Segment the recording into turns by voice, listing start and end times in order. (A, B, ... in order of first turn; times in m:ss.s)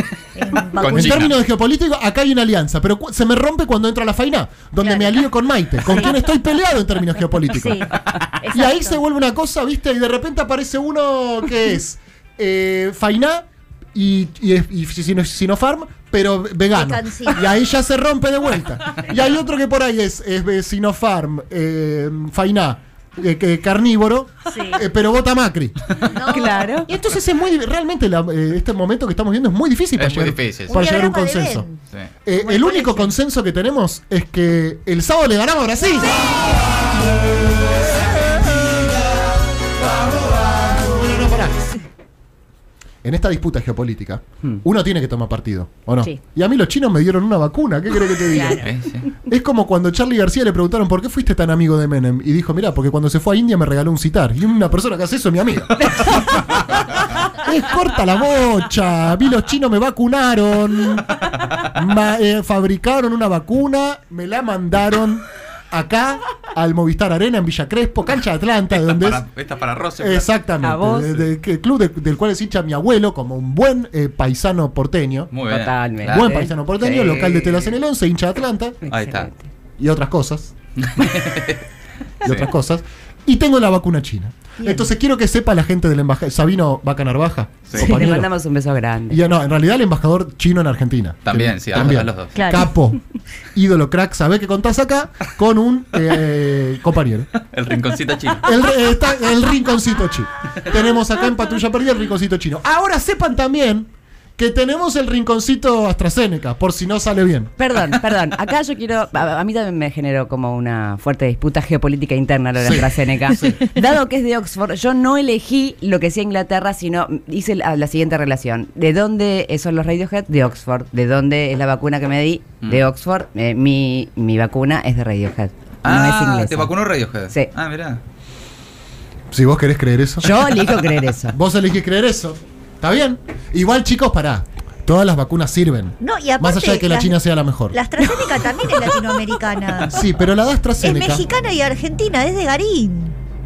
0:00.3-0:01.3 A
0:00.5-0:01.4 B
0:00.8-0:07.9 C
0:04.8-0:05.3 A
0:05.8-0:06.3 A
0:07.5-0:09.0 A
0:08.5-0:26.1 C
0:16.7-0:17.4 A
0:24.5-0:24.8 A
0:26.0-0:26.7 A
0:26.2-0:26.9 D
0:26.9-0:31.6 C
0:30.0-0:30.8 B
0:30.7-0:31.8 A
0:32.2-0:36.3 C
0:32.4-0:33.1 D
0:40.5-0:41.6 C
0:43.0-0:48.7 C
0:48.3-0:48.6 A
0:48.4-0:49.1 B
0:49.2-1:09.2 C
1:08.7-1:10.3 B
1:10.0-1:15.3 C
1:10.6-1:11.2 D
1:15.3-1:16.3 B
1:15.5-1:17.7 D
1:16.0-1:18.8 C
1:18.8-1:19.4 D
1:18.9-1:19.3 B
1:19.8-1:20.5 C
1:20.8-1:21.6 B
1:22.2-1:28.3 C
1:27.8-1:29.2 D
1:29.1-1:33.0 C
1:31.2-1:32.6 B
1:32.4-1:32.7 A
1:33.5-1:37.3 C
1:37.4-1:38.5 B
1:38.4-1:47.5 C
1:47.6-2:06.7 D
1:52.6-1:53.6 C
2:05.8-2:08.0 B
2:09.3-2:10.5 C
2:10.2-2:11.4 D
2:11.3-2:17.8 C
2:16.0-2:17.2 A
2:17.7-2:20.0 A
2:18.0-2:19.3 D
2:19.9-2:21.2 C
2:20.8-2:23.2 A